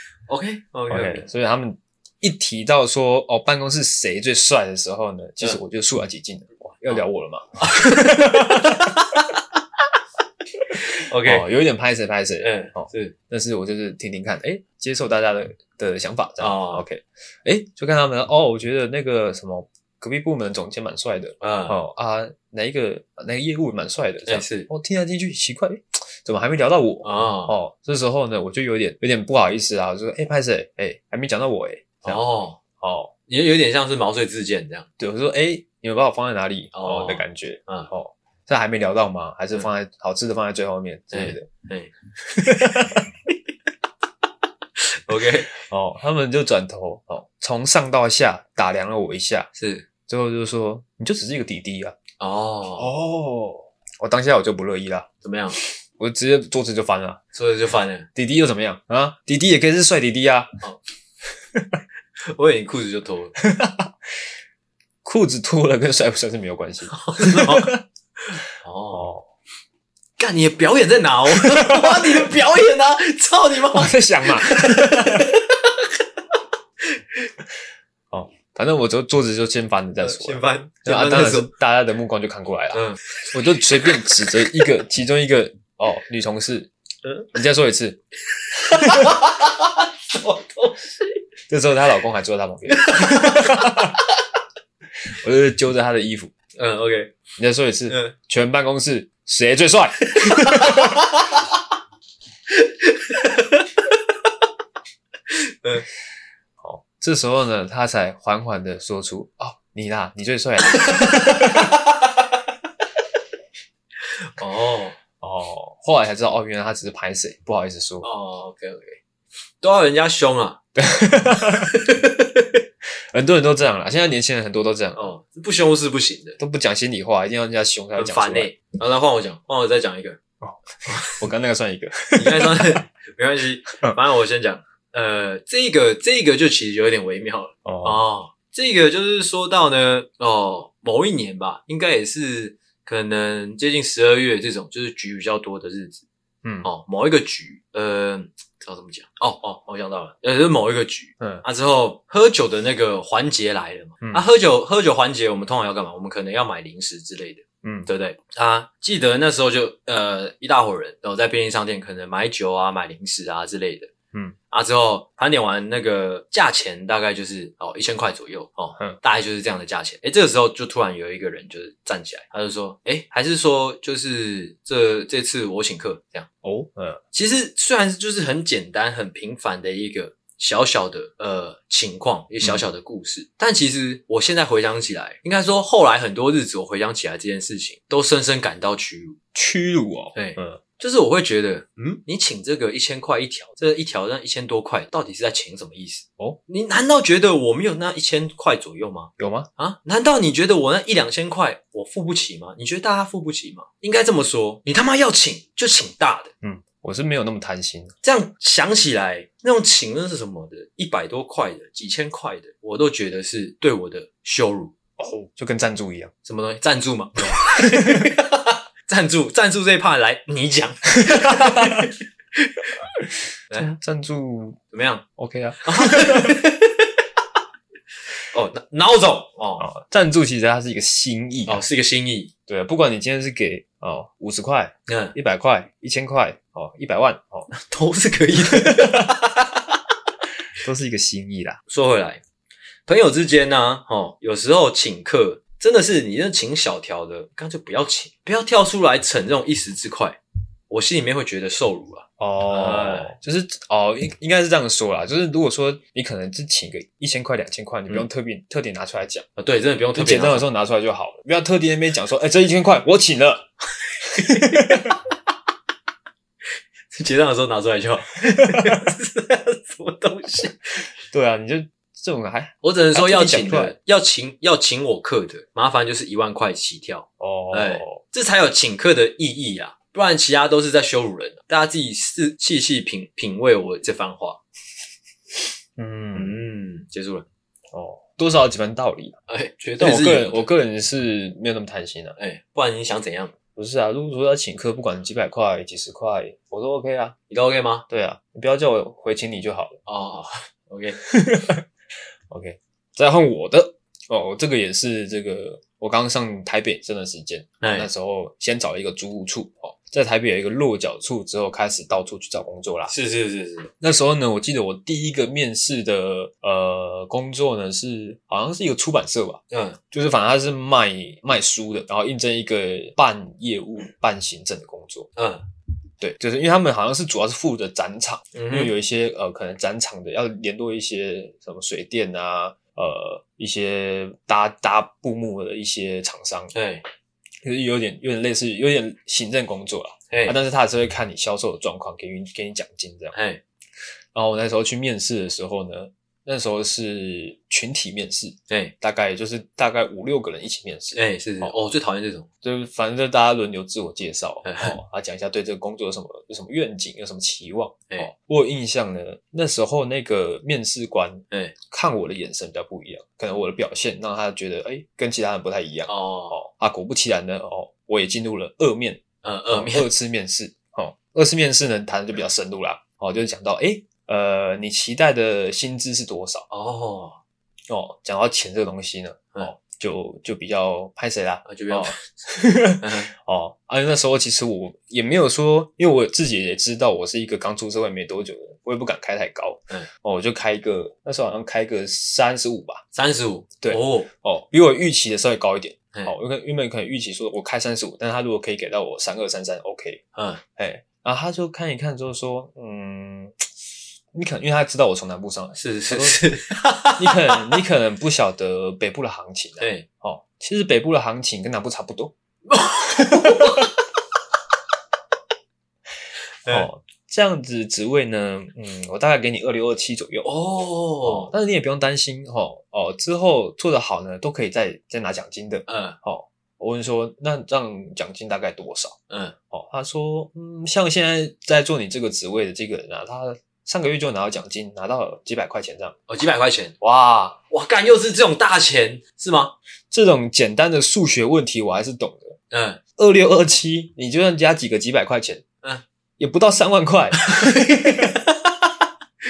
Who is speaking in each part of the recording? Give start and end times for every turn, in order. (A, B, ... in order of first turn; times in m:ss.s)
0:00.3-0:01.3 A
0:00.9-0:09.0 B
0:07.6-0:09.6 A
0:10.7-0:11.5 A
0:11.2-0:32.2 B
0:12.4-0:13.2 A
0:16.4-0:16.8 A
0:21.4-0:21.8 A
0:24.3-0:24.7 A
0:27.0-0:27.6 A
0:32.0-0:32.6 A
0:32.8-0:33.1 B
0:33.3-0:34.9 A
0:35.0-0:41.5 B
0:36.7-0:37.9 A
0:41.1-0:41.9 A
0:42.3-0:43.0 B
0:45.1-0:45.5 A
0:45.5-0:49.5 B
0:49.6-0:49.9 A
0:50.1-0:52.0 B
0:52.2-0:52.9 A
0:52.8-0:55.1 B
0:55.2-0:55.6 A
0:56.0-0:57.2 B
0:57.3-0:58.1 A
0:58.2-1:00.5 B
1:01.5-1:01.8 B
1:02.3-1:03.4 A
1:03.4-1:04.3 B
1:05.0-1:07.8 B
1:06.9-1:09.1 A
1:08.9-1:09.2 B
1:10.2-1:15.9 A
1:11.3-1:12.3 B
1:13.7-1:15.3 B
1:16.9-1:17.3 A
1:18.1-1:26.7 B
1:20.0-1:21.5 A
1:22.7-1:23.0 A
1:27.3-1:28.0 B
1:28.4-1:30.8 A
1:28.6-1:29.2 B
1:31.5-1:34.0 B
1:32.7-1:33.9 A
1:35.1-1:36.3 B
1:36.6-1:37.2 A
1:37.4-1:41.0 B
1:37.9-1:38.2 A
1:40.1-1:41.4 A
1:42.5-1:43.7 A
1:45.3-1:45.9 A
1:46.6-1:51.7 B
1:50.7-1:52.2 A
1:54.0-1:55.0 A
1:55.2-1:58.1 B
1:58.0-1:59.0 A
1:59.6-2:00.6 A
2:00.8-2:01.7 B
2:01.6-2:02.6 A
2:03.1-2:05.1 B
2:05.0-2:06.4 A
2:06.4-2:08.5 B
2:08.0-2:10.2 A
2:10.4-2:12.8 B
2:10.9-2:11.2 A
2:12.1-2:26.0 A
2:17.6-2:18.0 B
2:26.4-2:26.7 B
2:26.6-2:43.9 A
2:31.2-2:31.4 B
2:37.6-2:37.9 B
2:44.5-2:56.3 A
2:56.4-2:57.0 B
2:57.1-3:09.2 A
3:09.3-3:10.6 B
3:10.1-3:26.3 A
3:19.2-3:19.5 B
3:26.4-3:27.9 B
3:28.0-3:34.8 A
3:35.0-3:36.1 B
3:36.2-3:42.7 A
3:37.6-3:38.1 B
3:41.1-3:41.9 B
3:43.5-3:44.6 B
3:44.7-3:45.0 A
3:45.2-3:46.4 B
3:45.6-3:46.9 A
3:48.3-3:49.7 A
3:49.6-3:51.6 B
3:51.5-3:52.3 A
3:52.5-3:57.5 B
3:54.9-3:55.2 A
3:57.5-3:59.8 A
3:58.6-3:59.1 B
4:00.6-4:01.6 B
4:01.7-4:02.2 A
4:02.9-4:13.2 A
4:12.2-4:19.3 B
4:19.4-4:20.5 A
4:20.0-4:23.5 B
4:24.0-4:25.0 B
4:24.1-4:24.9 A
4:26.9-4:30.9 A
4:28.5-4:28.9 B
4:31.1-4:33.8 B
4:32.6-4:44.4 A
4:37.2-4:38.0 B
4:45.8-4:46.4 B
4:46.1-4:47.3 A
4:47.7-4:49.2 B
4:49.3-4:50.5 A
4:49.8-4:52.2 B
4:52.2-4:53.3 A
4:53.6-4:57.2 B
4:57.3-4:57.8 A
4:57.9-4:59.8 B
4:59.9-5:01.0 A
5:01.0-5:01.6 B
5:02.3-5:12.9 B
5:07.6-5:07.9 A
5:12.9-5:13.7 A
5:13.8-5:19.4 B
5:19.5-5:19.8 A
5:19.9-5:25.1 B
5:25.2-5:25.4 A
5:26.0-5:36.5 B
5:28.4-5:28.7 A
5:36.5-5:36.8 A
5:37.4-5:43.2 B
5:40.1-5:40.4 A
5:43.1-5:43.4 A
5:44.1-5:51.6 B
5:50.9-5:52.3 A
5:52.4-6:16.5 B
5:54.4-5:54.8 A
6:01.3-6:01.6 A
6:05.9-6:06.4 A
6:09.2-6:09.9 A
6:16.5-6:17.2 A
6:17.7-6:32.8 B
6:21.4-6:22.0 A
6:22.8-6:23.1 A
6:32.9-6:34.1 A
6:33.6-6:40.0 B
6:40.2-6:40.4 A
6:40.6-6:43.5 B
6:44.1-6:46.3 B
6:45.6-6:47.6 A
6:47.0-6:52.1 B
6:49.6-6:49.9 A
6:52.5-6:53.7 A
6:53.1-6:53.6 B
6:56.5-7:00.3 B
7:00.2-7:01.3 A
7:01.0-7:09.0 B
7:05.7-7:06.0 A
7:09.1-7:09.4 A
7:09.5-7:16.0 B
7:16.1-7:16.8 A
7:16.8-7:17.4 B
7:17.5-7:19.6 A
7:19.9-7:22.4 B
7:22.5-7:22.8 A
7:23.0-7:25.4 B
7:26.2-7:28.2 B
7:27.2-7:28.4 A